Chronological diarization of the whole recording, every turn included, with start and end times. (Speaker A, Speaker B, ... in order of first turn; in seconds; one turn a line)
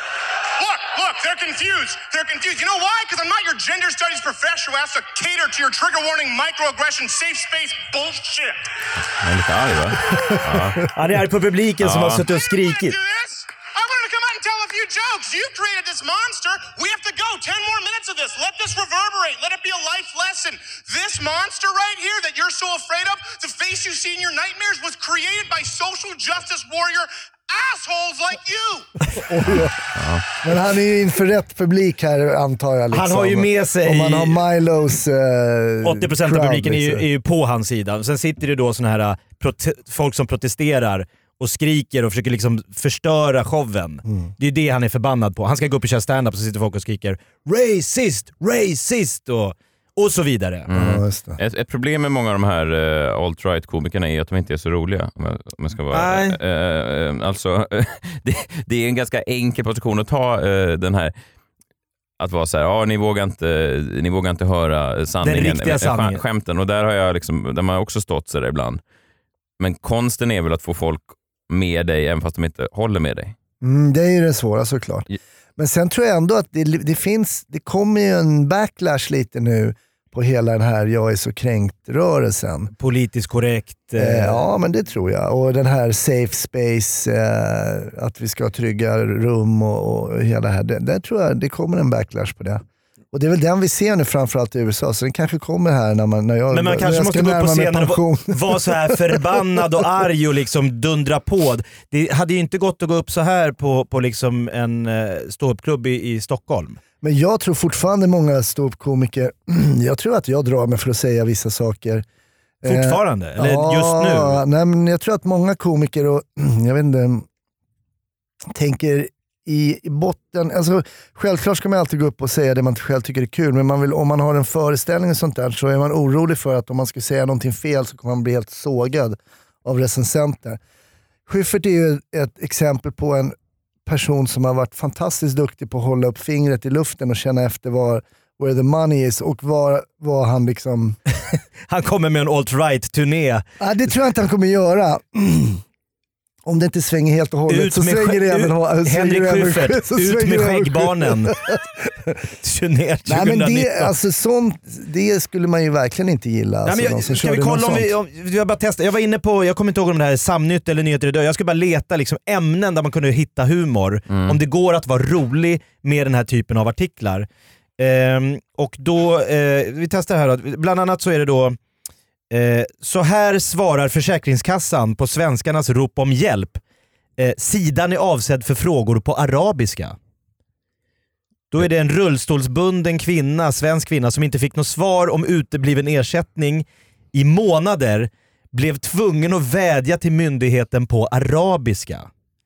Speaker A: 0.6-8.6
Speaker B: 9.1-10.9
Speaker C: 10.9-13.0
Speaker B: 11.8-12.2
Speaker A: 12.5-28.9
Speaker D: 29.1-29.8
Speaker B: 29.4-30.2
Speaker D: 30.4-37.0
Speaker C: 32.9-34.4
Speaker C: 35.8-50.7
Speaker B: 50.7-61.1
Speaker D: 50.7-51.4
Speaker C: 55.9-56.4
Speaker B: 62.2-68.8
Speaker C: 65.2-66.2
Speaker B: 69.6-73.3
Speaker D: 73.6-82.7
Speaker C: 82.8-84.4
Speaker D: 84.0-99.3
Speaker C: 96.5-106.8
Speaker D: 107.0-112.0
Speaker D: 112.6-117.2
Speaker C: 112.6-114.4
Speaker D: 118.5-130.6
Speaker D: 131.3-133.3
Speaker D: 133.9-141.0
Speaker C: 141.3-143.4
Speaker D: 143.6-145.6
Speaker D: 146.4-152.1
Speaker C: 147.5-151.4
Speaker C: 152.4-153.9
Speaker D: 153.1-157.9
Speaker C: 156.6-167.3
Speaker B: 164.1-164.4
Speaker C: 167.8-171.6
Speaker C: 172.3-176.6
Speaker C: 177.2-180.0
Speaker C: 181.5-192.1